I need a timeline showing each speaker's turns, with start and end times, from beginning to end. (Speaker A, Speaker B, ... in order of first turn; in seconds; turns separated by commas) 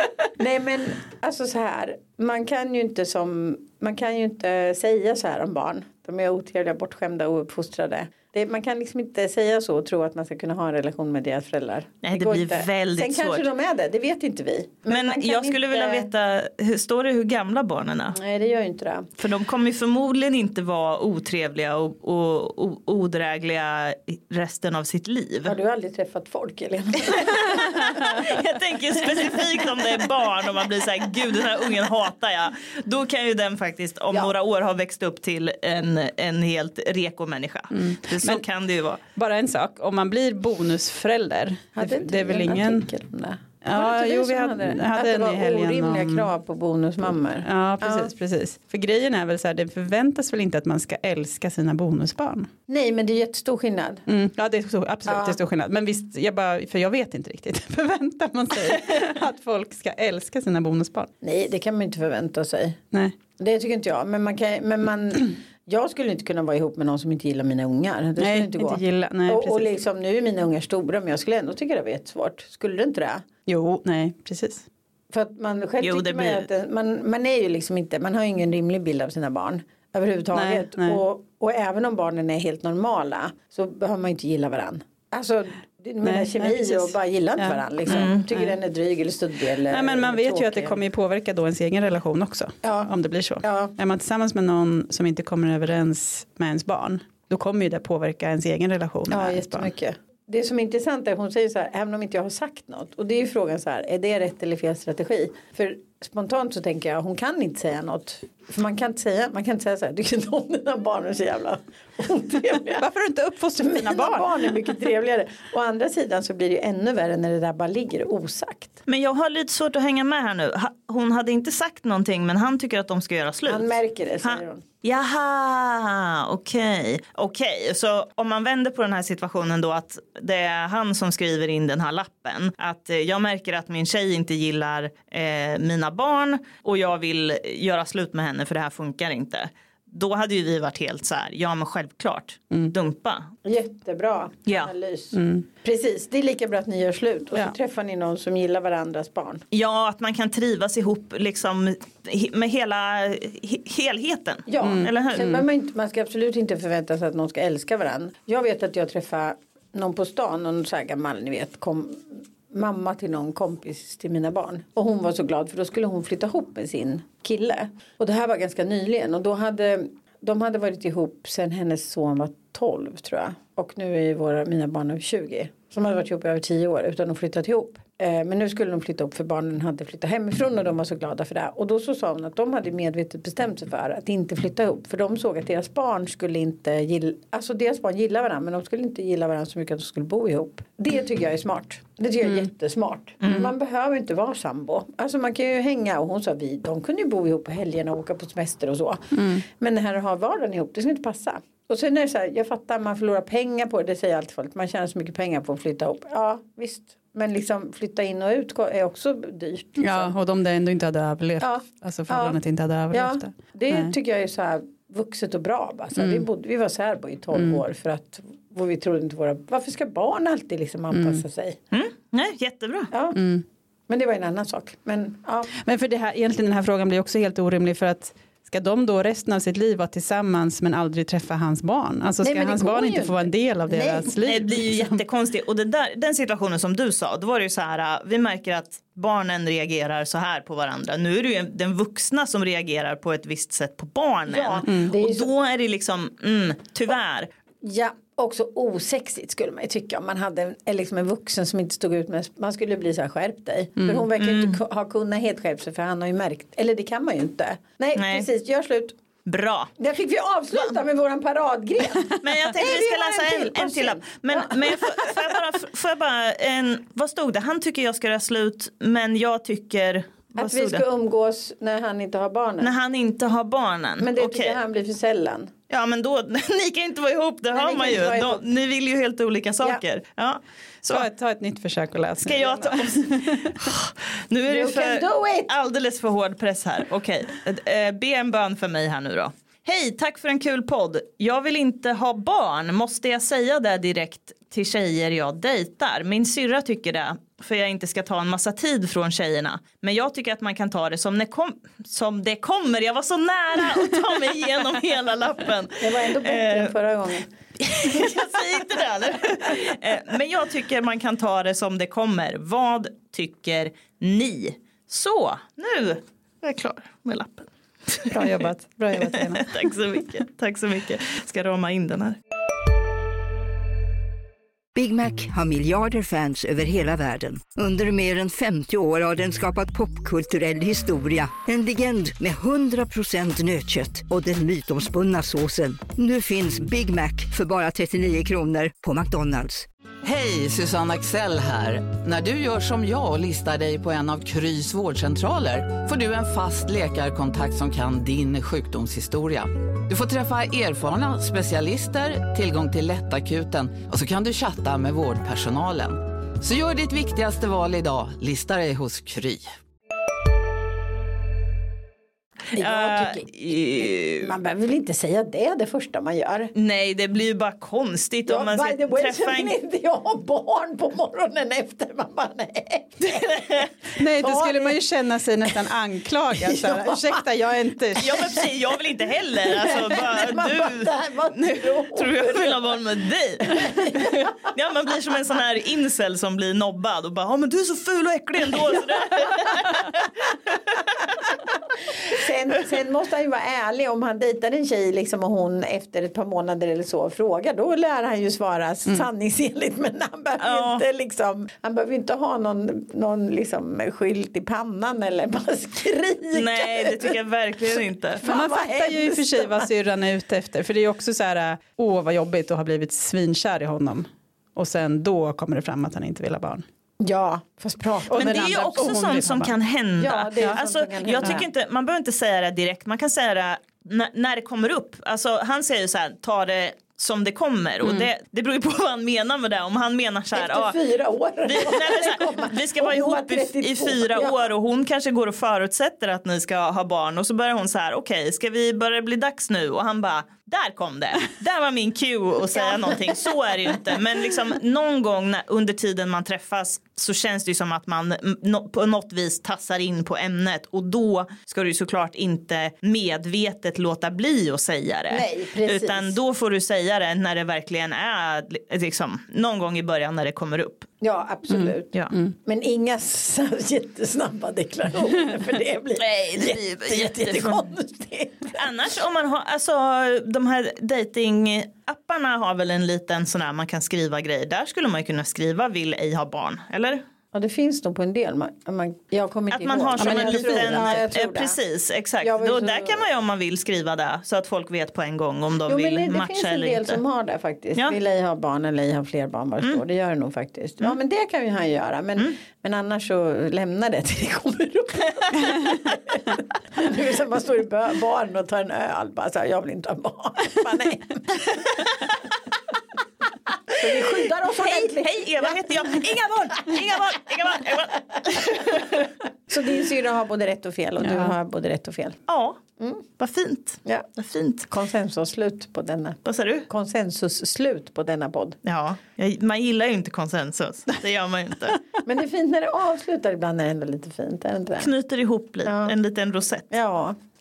Speaker A: 0.4-16.1, Speaker B: 12.0-13.4, Speaker B: 14.9-18.2, Speaker A: 18.1-19.1, Speaker B: 19.2-25.5, Speaker A: 25.4-28.3, Speaker B: 27.1-39.0, Speaker A: 29.1-29.8, Speaker C: 37.7-38.4, Speaker C: 39.1-42.9, Speaker A: 41.8-48.1, Speaker C: 43.6-46.3, Speaker C: 47.4-52.5, Speaker A: 52.7-54.1, Speaker C: 54.1-61.1, Speaker A: 55.1-55.4, Speaker A: 61.2-62.8, Speaker A: 63.4-73.2, Speaker C: 68.2-69.7, Speaker C: 73.5-74.7, Speaker A: 75.1-90.8, Speaker B: 75.8-76.5, Speaker C: 80.3-81.0, Speaker C: 86.0-88.5, Speaker C: 89.7-99.7, Speaker A: 92.6-93.7, Speaker A: 99.1-112.8, Speaker C: 112.7-114.5, Speaker A: 113.6-118.8, Speaker B: 118.9-143.3, Speaker A: 123.5-124.6, Speaker A: 143.4-149.4, Speaker B: 144.5-144.7, Speaker C: 145.1-145.4, Speaker B: 149.5-155.3, Speaker A: 154.5-210.1, Speaker C: 154.6-155.4, Speaker C: 199.1-199.4, Speaker C: 209.8-213.9, Speaker A: 211.4-212.4, Speaker A: 212.9-221.6, Speaker C: 216.0-216.2, Speaker C: 217.3-217.6, Speaker C: 220.9-221.2, Speaker B: 221.7-222.9, Speaker A: 222.9-223.2, Speaker C: 223.1-223.4, Speaker A: 223.9-225.5, Speaker C: 225.6-235.0, Speaker A: 232.2-234.1, Speaker B: 234.2-247.3, Speaker A: 244.3-245.3, Speaker A: 247.6-258.9, Speaker B: 254.2-254.6, Speaker B: 257.9-258.3, Speaker B: 259.2-259.7, Speaker A: 259.8-265.4, Speaker B: 262.2-270.8, Speaker A: 270.4-272.7, Speaker B: 272.6-274.6, Speaker A: 274.0-275.5, Speaker B: 275.7-281.1, Speaker A: 277.5-278.4, Speaker C: 280.9-283.7, Speaker B: 282.2-306.7, Speaker A: 284.4-285.5, Speaker A: 305.8-307.3, Speaker B: 307.6-318.2, Speaker C: 318.0-319.6, Speaker B: 318.9-322.2, Speaker D: 324.7-339.7, Speaker E: 340.0-359.5, Speaker A: 362.5-366.5, Speaker B: 362.5-364.3, Speaker B: 366.6-369.5, Speaker A: 368.3-374.8, Speaker C: 373.9-378.4, Speaker A: 376.3-377.2, Speaker A: 378.0-378.5, Speaker B: 378.0-390.7, Speaker A: 379.4-382.8, Speaker A: 383.4-384.3, Speaker A: 392.1-409.7, Speaker B: 400.4-400.8, Speaker B: 406.3-408.2, Speaker C: 408.2-416.6, Speaker A: 417.0-418.7, Speaker C: 418.1-419.5, Speaker B: 418.1-430.8, Speaker A: 420.0-421.5, Speaker A: 430.3-434.5, Speaker B: 431.4-460.9, Speaker A: 442.5-443.6, Speaker A: 455.1-456.1, Speaker A: 461.0-468.6, Speaker C: 461.5-462.3, Speaker B: 466.0-467.7, Speaker B: 468.5-477.0, Speaker A: 477.3-481.6, Speaker B: 479.5-487.0, Speaker C: 480.0-481.0, Speaker A: 482.2-483.0, Speaker A: 485.7-501.8, Speaker A: 503.7-507.0, Speaker B: 504.6-509.1, Speaker A: 508.4-508.8, Speaker A: 509.5-512.2, Speaker C: 511.0-511.3, Speaker B: 512.3-512.6, Speaker B: 513.2-514.7, Speaker A: 514.7-518.6, Speaker B: 516.2-516.7, Speaker B: 518.6-521.8, Speaker A: 522.0-524.9, Speaker B: 524.8-526.6, Speaker A: 525.6-525.9, Speaker A: 526.7-527.2